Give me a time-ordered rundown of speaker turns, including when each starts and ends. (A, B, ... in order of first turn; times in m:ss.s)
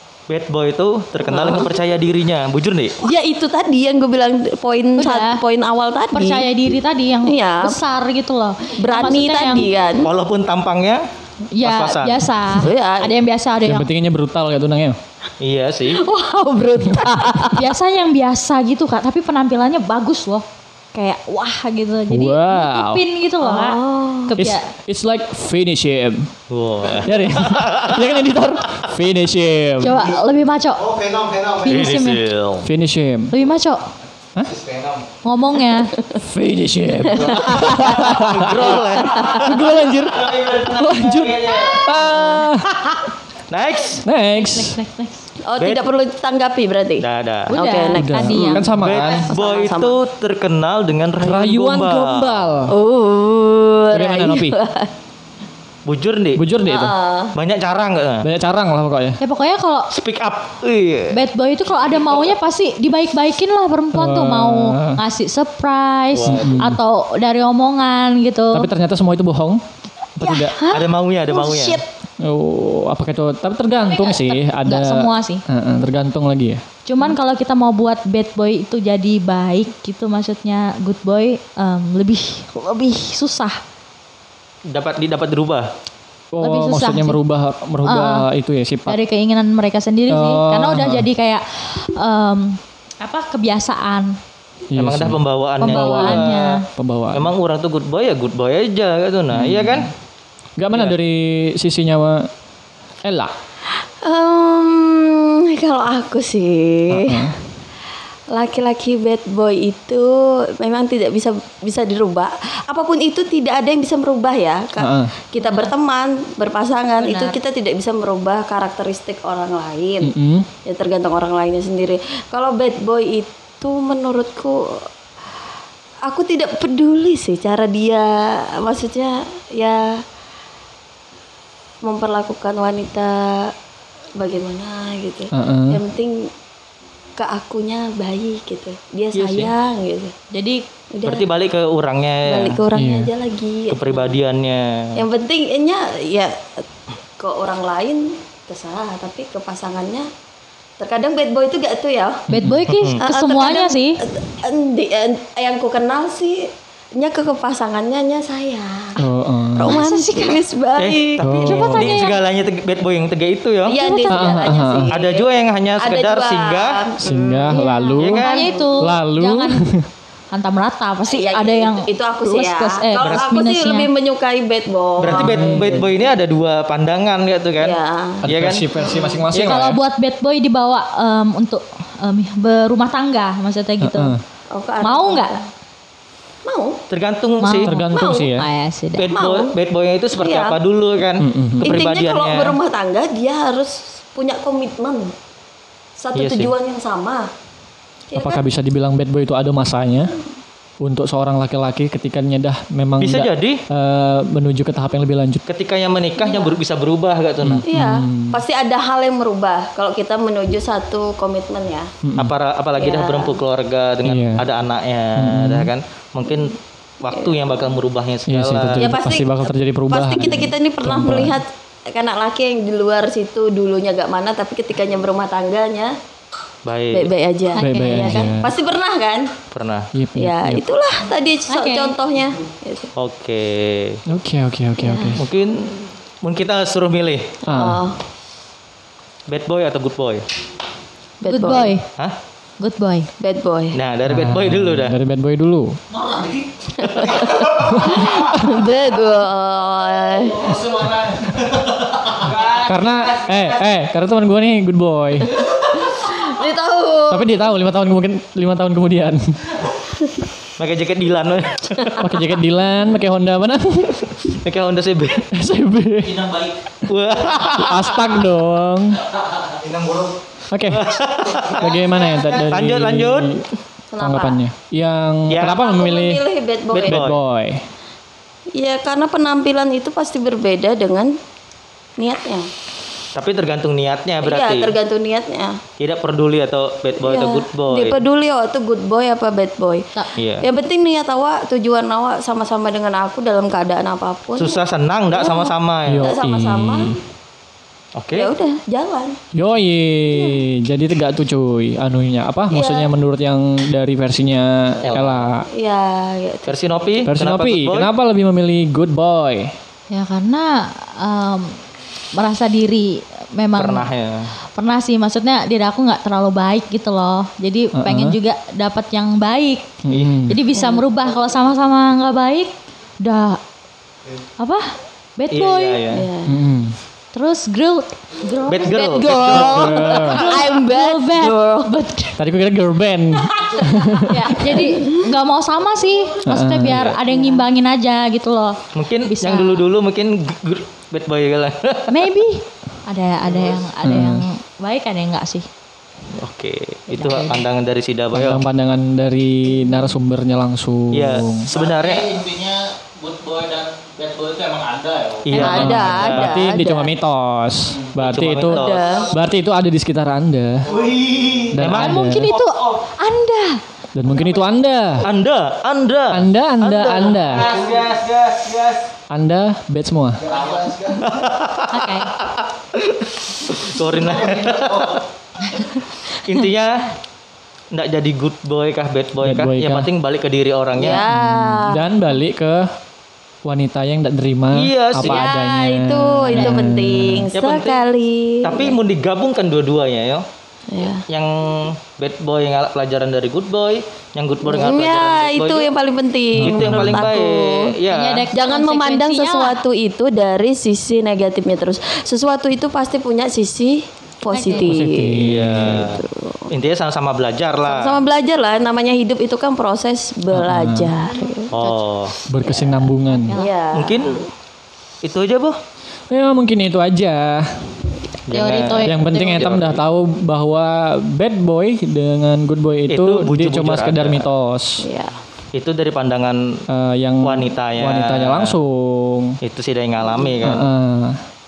0:00.3-0:03.0 A
0:01.3-0:01.7 B
0:03.0-0:06.5 B
0:05.0-0:05.4 C
0:06.1-0:09.7 C
0:07.2-0:07.8 B
0:08.8-0:10.1 B
0:10.0-0:11.0 A
0:11.5-0:13.9 C
0:11.6-0:12.3 A
0:12.5-0:13.2 B
0:13.6-0:15.0 D
0:15.4-0:16.0 A
0:16.0-0:17.6 B
0:16.9-0:17.2 D
0:17.5-0:24.7 C
0:22.1-0:23.0 D
0:23.4-0:24.4 B
0:24.4-0:26.3 D
0:26.5-0:28.1 A
0:27.0-0:30.0 D
0:29.8-0:32.2 C
0:31.6-0:32.7 A
0:32.6-0:33.3 D
0:33.3-0:33.8 C
0:35.2-0:36.0 C
0:36.2-0:38.7 D
0:37.2-0:39.4 B
0:37.4-0:41.9 A
0:39.4-0:43.1 D
0:43.5-0:44.0 A
0:44.0-0:44.8 D
0:44.4-0:45.2 C
0:45.5-0:48.7 B
0:47.0-0:47.5 A
0:47.5-0:48.8 C
0:48.0-0:49.3 D
0:48.7-0:52.5 A
0:49.3-0:50.0 B
0:51.2-0:52.7 D
0:52.7-0:54.9 B
0:53.9-0:54.6 D
0:55.9-0:56.4 A
0:56.4-0:57.0 D
0:56.6-0:57.4 B
0:57.4-0:58.3 A
0:58.2-0:59.2 D
0:59.2-0:59.9 C
0:59.9-1:01.2 A
1:01.1-1:08.7 C
1:03.9-1:05.0 D
1:06.1-1:06.8 A
1:06.3-1:06.8 D
1:08.5-1:09.6 D
1:10.2-1:10.6 D
1:10.2-1:11.8 B
1:10.7-1:11.8 A
1:12.2-1:16.6 D
1:13.9-1:15.4 C
1:16.9-1:23.6 C
1:24.7-1:25.7 A
1:26.3-1:29.0 D
1:26.4-1:27.2 C
1:27.8-1:28.3 C
1:28.9-1:34.2 C
1:30.1-1:31.1 D
1:34.7-1:37.3 D
1:34.8-1:36.6 A
1:35.6-1:36.6 C
1:37.1-1:39.9 A
1:39.3-1:39.9 D
1:40.6-1:42.3 D
1:43.0-1:43.3 D
1:43.8-1:47.3 B
1:46.9-1:47.4 D
1:48.3-2:00.1 B
1:54.8-1:55.1 D
1:55.4-1:55.7 C
1:57.0-1:57.4 C
2:00.0-2:00.5 D
2:00.6-2:04.8 B
2:06.0-2:10.0 B
2:11.8-2:13.5 B
2:14.2-2:16.3 B
2:15.3-2:15.8 D
2:17.2-2:20.1 B
2:19.2-2:19.5 A
2:20.3-2:20.6 C
2:20.9-2:21.3 B
2:21.0-2:22.6 A
2:22.2-2:24.1 B
2:22.7-2:23.1 D
2:23.7-2:25.0 A
2:25.0-2:26.6 B
2:27.2-2:30.1 B
2:30.8-2:32.3 B
2:32.3-2:32.6 D
2:32.3-2:34.0 C
2:32.7-2:33.0 A
2:33.0-2:41.4 B
2:39.0-2:39.8 D
2:39.6-2:40.4 C
2:40.8-2:43.8 A
2:41.2-2:41.9 D
2:41.5-2:42.2 C
2:43.7-2:45.3 B
2:43.8-2:44.8 C
2:44.1-2:44.9 D
2:44.9-2:46.8 A
2:45.8-2:47.6 B
2:47.0-2:48.3 D
2:47.1-2:49.7 C
2:48.0-2:48.6 A
2:48.8-2:49.8 D
2:50.3-2:53.9 C
2:51.1-2:55.8 B
2:55.0-2:58.7 A
2:55.1-2:55.9 D
2:57.6-2:58.2 B
2:58.2-2:59.8 D
2:58.8-2:59.2 B
2:59.3-2:59.7 A
2:59.4-3:04.2 C
3:03.8-3:04.2 D
3:04.5-3:05.5 B
3:04.8-3:05.4 C
3:06.4-3:06.8 B
3:06.9-3:07.7 A
3:07.4-3:09.1 C
3:07.6-3:08.5 D
3:07.9-3:08.3 B
3:09.0-3:12.6 A
3:09.1-3:09.5 B
3:10.2-3:10.6 B
3:11.2-3:11.8 D
3:11.6-3:15.1 B
3:16.0-3:17.3 B
3:16.2-3:16.5 A
3:18.1-3:18.4 B
3:18.1-3:20.1 D
3:20.8-3:25.4 D
3:23.0-3:23.6 A
3:25.5-3:27.6 A
3:27.4-3:28.4 D
3:27.7-3:31.9 B
3:32.0-3:32.3 D
3:32.2-3:38.9 A
3:32.8-3:33.4 B
3:34.0-3:34.4 D
3:35.2-3:35.7 D
3:38.3-3:41.4 D
3:38.8-3:46.0 B
3:46.6-3:47.1 A
3:46.9-3:49.3 B
3:47.6-3:48.2 C
3:47.6-3:48.5 D
3:49.5-3:49.9 A
3:49.9-3:50.6 D
3:50.2-3:52.9 B
3:51.5-3:52.0 C
3:53.0-3:54.0 A
3:54.1-3:55.2 D
3:54.8-3:55.2 B
3:55.2-3:55.7 A
3:56.2-3:57.4 A
3:57.5-3:57.8 D
3:57.5-3:58.0 B
3:59.3-4:00.2 A
4:01.2-4:01.8 B
4:01.3-4:01.9 C
4:02.6-4:03.1 C
4:03.2-4:03.8 B
4:03.7-4:05.0 A
4:04.1-4:05.8 D
4:05.9-4:06.5 E
4:06.8-4:10.6 B
4:07.7-4:08.7 D
4:10.4-4:13.4 E
4:12.6-4:15.3 D
4:15.4-4:17.4 B
4:17.1-4:19.5 D
4:20.6-4:22.1 A
4:22.0-4:24.1 D
4:24.2-4:25.3 A
4:25.3-4:26.2 D
4:26.0-4:26.6 E
4:26.9-4:28.1 A
4:27.4-4:29.0 D
4:29.1-4:29.6 E
4:30.5-4:31.0 D
4:30.7-4:33.4 A
4:31.5-4:33.4 D
4:33.9-4:34.4 B
4:34.0-4:36.2 D
4:35.3-4:35.6 A
4:35.4-4:37.0 B
4:36.7-4:37.2 A
4:36.9-4:37.6 D
4:38.6-4:41.2 B
4:42.0-4:42.5 B
4:43.2-4:44.7 A
4:44.2-4:45.6 B
4:45.8-4:48.0 A
4:47.0-4:49.9 B
4:50.2-4:50.5 A
4:50.4-4:54.6 B
4:54.4-4:56.2 A
4:55.1-4:57.0 B
4:55.9-4:57.0 D
4:58.0-4:58.3 A
4:58.1-4:59.2 B
4:59.3-5:05.5 D
5:02.5-5:02.9 B
5:04.8-5:05.2 A
5:05.5-5:07.1 B
5:06.5-5:07.9 A
5:07.1-5:09.6 D
5:09.9-5:11.6 C
5:12.1-5:13.9 C
5:13.5-5:14.3 A
5:14.6-5:19.7 C
5:17.7-5:18.2 D
5:19.8-5:20.4 D
5:19.9-5:20.1 A
5:20.3-5:23.4 C
5:20.6-5:20.8 B
5:24.4-5:25.8 C
5:25.3-5:26.1 A
5:25.9-5:26.4 B
5:26.3-5:26.8 D
5:27.1-5:29.2 C
5:28.5-5:30.4 A
5:28.6-5:31.9 B
5:29.3-5:30.2 D
5:29.8-5:32.2 C
5:32.2-5:34.3 D
5:34.0-5:39.6 C
5:34.3-5:35.0 B
5:36.2-5:37.0 D
5:36.7-5:37.0 A
5:37.1-5:37.4 B
5:38.7-5:42.1 A
5:41.9-5:45.5 C
5:43.3-5:43.6 E
5:43.8-5:44.3 D
5:46.1-5:48.4 A
5:46.9-5:47.4 C
5:48.1-5:51.5 D
5:50.9-5:52.2 A
5:51.5-5:56.2 E
5:55.3-5:56.3 A
5:55.4-6:00.7 D
5:55.4-5:56.9 B
5:58.0-5:58.9 A
5:58.5-5:59.1 B
6:00.6-6:01.6 E
6:01.5-6:02.3 D
6:01.6-6:02.0 A
6:01.7-6:03.6 C
6:02.2-6:02.8 E
6:04.0-6:05.1 D
6:05.0-6:07.8 A
6:06.1-6:07.5 D
6:06.8-6:08.9 E
6:09.1-6:10.3 D
6:10.2-6:11.0 E
6:10.9-6:16.9 A
6:11.7-6:12.1 C
6:17.7-6:21.0 A
6:19.2-6:19.9 D
6:20.8-6:21.8 B
6:21.1-6:22.7 D
6:23.4-6:27.3 D
6:24.5-6:25.3 A
6:25.0-6:28.8 B
6:27.4-6:27.8 A
6:28.4-6:30.2 A
6:30.7-6:31.0 B
6:31.1-6:35.7 A
6:34.4-6:37.8 B
6:36.4-6:37.1 D
6:36.4-6:38.3 A
6:37.9-6:39.6 C
6:38.3-6:46.5 B
6:44.3-6:44.8 C
6:44.6-6:45.9 D
6:45.2-6:48.0 A
6:47.6-6:51.5 B
6:50.3-6:50.9 D
6:51.5-6:52.2 A
6:52.3-6:53.4 D
6:53.1-6:53.5 C
6:53.3-6:54.3 B
6:53.7-6:54.2 A
6:55.0-6:55.6 A
6:56.1-6:57.7 D
6:58.3-6:59.8 A
6:58.3-6:59.6 C
6:58.8-7:04.8 D
7:02.9-7:04.2 A
7:04.8-7:05.2 B
7:05.5-7:06.6 A
7:06.7-7:09.4 D
7:07.2-7:08.6 A
7:09.4-7:10.7 A
7:10.4-7:11.2 D